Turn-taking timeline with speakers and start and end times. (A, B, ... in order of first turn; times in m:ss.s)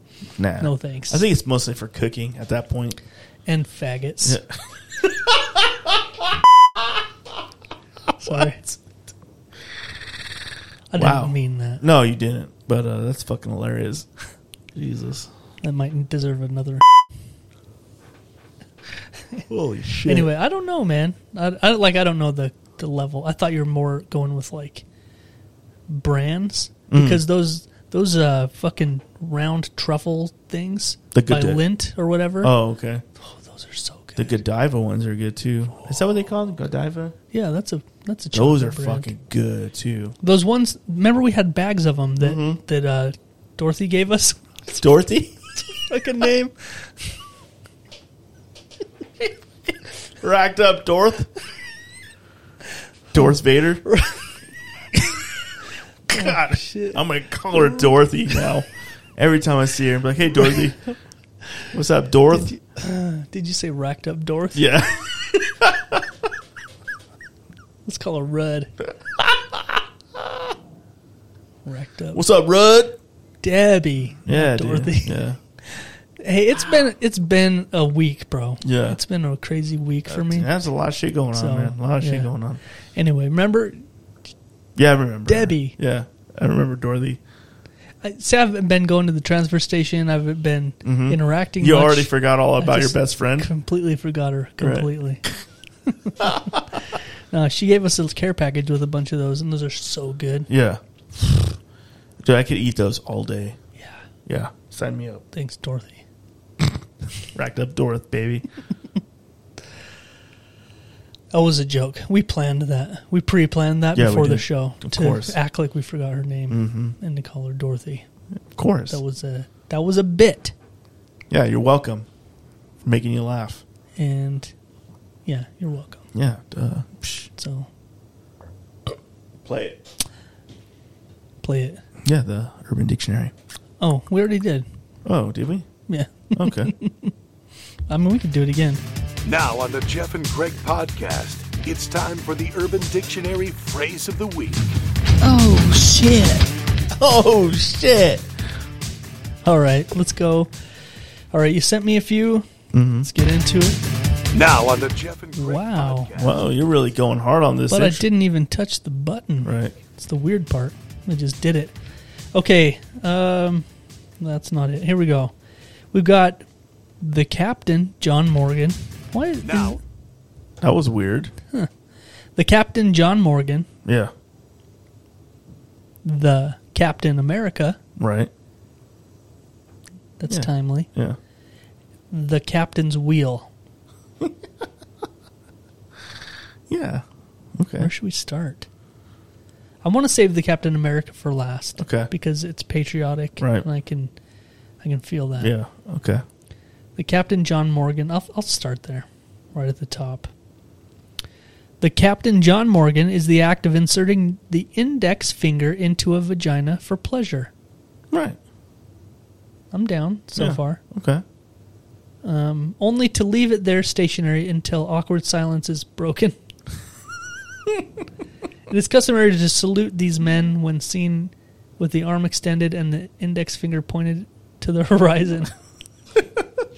0:00.4-0:03.0 A
0:00.6-0:01.2 B
0:03.4-0:04.4 B
0:04.2-0:05.6 A
0:08.2-0:08.6 B
0:08.2-0:08.8 A
0:10.9-0:11.8 B
0:11.0-0:14.1 A
0:14.7-0:15.3 A
0:15.6-0:16.8 B
0:19.5-0:20.3 A
0:20.0-0:24.8 B
0:25.9-0:32.6 B
0:26.9-0:27.2 A
0:31.1-0:31.7 A
0:32.4-0:33.0 A
0:33.2-0:34.4 B
0:34.2-0:37.2 A
0:37.3-0:39.1 B
0:38.3-0:40.2 A
0:40.2-0:44.8 B
0:42.2-0:42.6 A
0:44.7-0:45.4 A
0:45.8-0:46.7 B
0:50.2-0:51.3 A
0:53.1-0:53.8 A
0:53.8-0:54.3 B
0:56.1-1:00.8 A
0:56.1-0:57.0 B
0:57.6-0:57.8 B
1:01.7-1:02.5 A
1:02.4-1:04.7 B
1:04.5-1:06.0 A
1:07.8-1:08.7 B
1:09.0-1:10.5 A
1:11.6-1:12.2 B
1:12.1-1:13.0 A
1:13.4-1:20.5 B
1:14.2-1:15.4 A
1:18.6-1:19.0 A
1:20.1-1:22.6 A
1:21.3-1:22.3 B
1:22.9-1:23.8 B
1:24.8-1:27.2 A
1:25.2-1:25.8 B
1:28.0-1:35.2 B
1:30.8-1:33.5 A
1:34.6-1:35.3 A
1:35.9-1:40.5 B
1:36.2-1:36.6 A
1:40.5-1:41.6 A
1:42.2-1:43.6 A
1:44.2-1:45.2 A
1:45.3-1:46.0 B
1:47.3-1:48.4 A
1:51.3-1:58.0 B
1:53.9-1:55.4 A
1:56.5-1:57.0 A
1:58.5-1:59.0 A
1:58.9-2:00.5 B
2:01.3-2:02.1 A
2:02.8-2:03.6 A
2:04.0-2:04.5 B
2:05.2-2:06.0 B
2:06.1-2:07.3 A
2:07.4-2:07.7 B
2:09.4-2:09.8 A
2:11.4-2:11.8 B
2:12.0-2:13.3 A
2:13.8-2:14.6 B
2:15.0-2:15.7 A
2:15.9-2:17.1 B
2:16.3-2:16.7 A
2:17.9-2:18.8 B
2:19.2-2:24.8 C
2:25.2-2:26.5 B
2:26.9-2:28.3 A
2:29.4-2:30.5 B
2:31.3-2:32.5 B
2:32.7-2:33.1 A
2:33.0-2:33.8 B
2:34.3-2:36.4 C
2:35.4-2:36.1 B
2:36.1-2:38.0 A
2:37.7-2:41.8 B
2:39.4-2:39.7 A
2:42.3-2:43.6 B
2:44.2-2:45.3 B
2:45.9-2:46.4 B
2:47.0-2:49.8 B
2:49.4-2:49.8 C
2:50.6-2:51.3 A
2:52.4-2:53.7 B
2:53.8-2:54.1 A
2:56.0-2:57.8 B
2:58.0-2:58.3 A
3:00.2-3:00.9 B
3:00.3-3:01.2 A
3:02.1-3:03.5 B
3:06.7-3:07.0 A
3:07.6-3:07.9 A
3:07.8-3:08.7 B
3:09.8-3:14.1 B
3:11.8-3:12.1 A
3:13.4-3:13.6 A
3:14.8-3:15.5 B
3:15.4-3:16.2 A
3:17.0-3:20.3 B
3:21.8-3:27.5 B
3:28.1-3:28.4 A
3:29.7-3:30.8 B
3:30.4-3:31.2 A
3:32.2-3:36.4 B
3:38.7-3:45.5 B